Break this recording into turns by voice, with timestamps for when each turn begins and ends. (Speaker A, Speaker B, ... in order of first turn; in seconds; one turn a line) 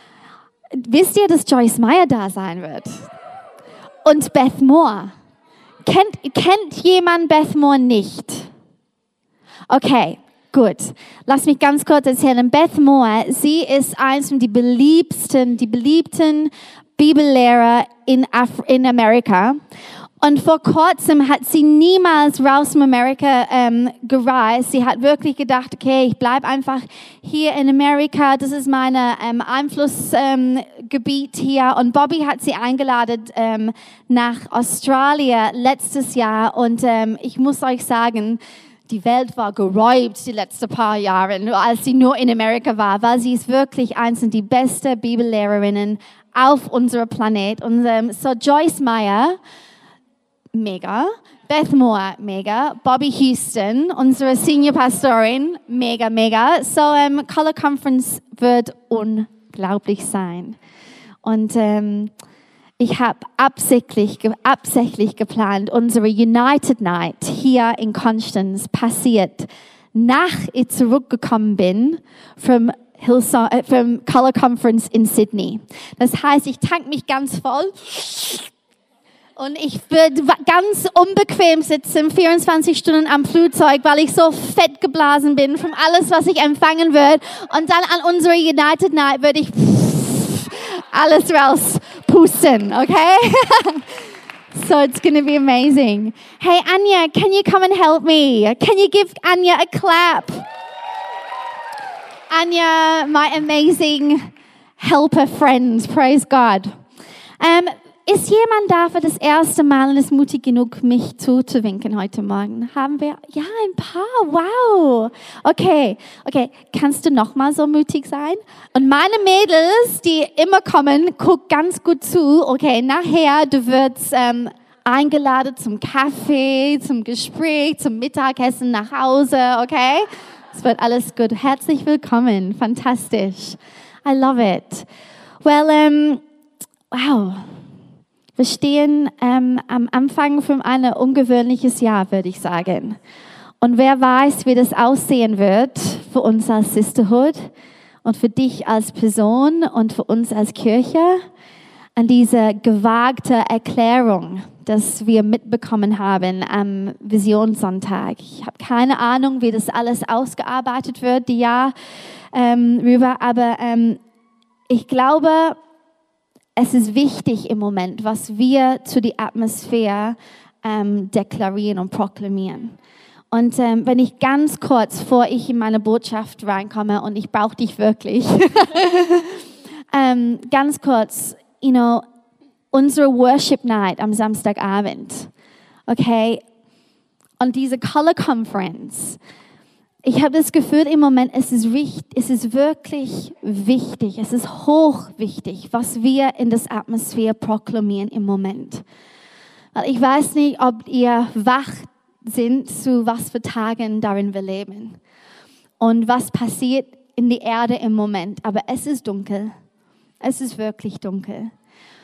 Speaker A: 0.7-3.1
Speaker A: 4.0-5.1
Speaker A: 5.8-8.5
Speaker A: 9.7-19.6
Speaker A: 20.2-49.4
Speaker A: 50.5-60.6
Speaker A: 61.2-62.1
Speaker A: 62.8-78.5
Speaker A: 79.4-94.0
Speaker A: 94.5-100.5
Speaker A: 102.3-106.7
Speaker A: 107.4-134.9
Speaker A: 135.4-136.2
Speaker A: 136.9-137.5
Speaker A: 138.4-143.0
Speaker A: 143.6-147.5
Speaker A: 148.0-151.2
Speaker A: 151.9-161.7
Speaker A: 162.3-164.0
Speaker A: 164.7-165.6
Speaker A: 166.6-172.8
Speaker A: 173.3-182.0
Speaker A: 182.7-185.3
Speaker A: 185.9-186.4
Speaker A: 187.4-189.2
Speaker A: 190.0-198.8
Speaker A: 199.7-205.0
Speaker A: 205.8-209.5
Speaker A: 210.2-211.5